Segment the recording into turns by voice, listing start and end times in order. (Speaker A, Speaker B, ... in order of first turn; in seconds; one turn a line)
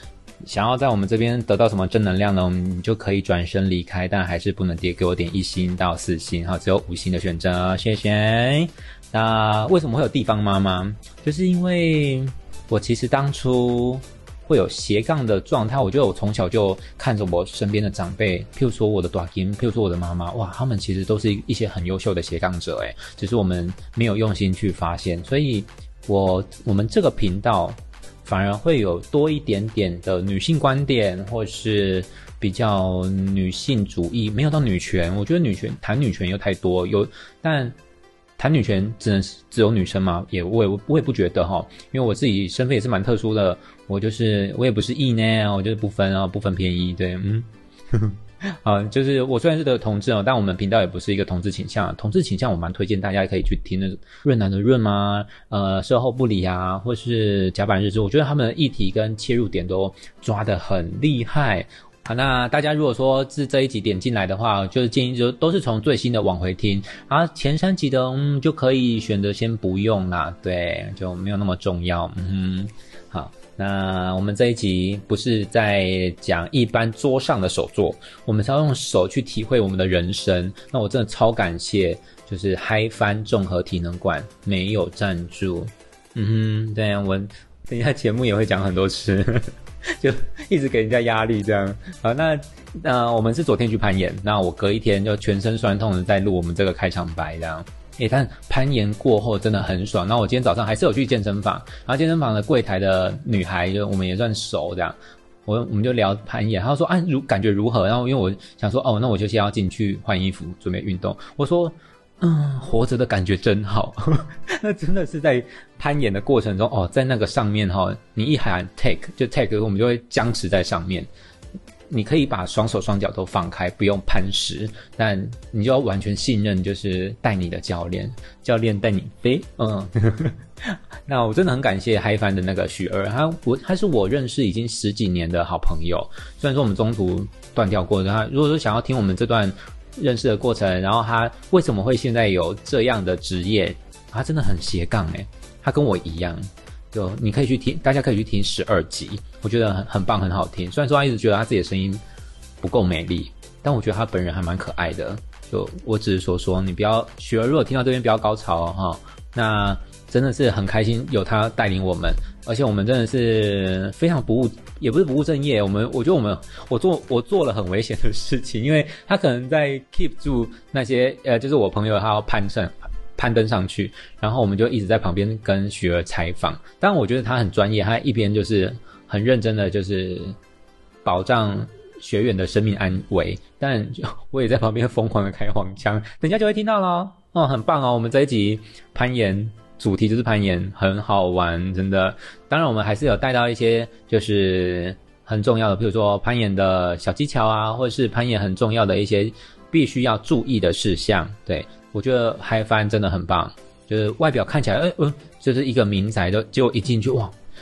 Speaker A: 0.4-37.7
Speaker A: 38.4-121.1
Speaker A: 121.9-152.0
Speaker A: 152.6-180.4
Speaker A: 181.0-207.3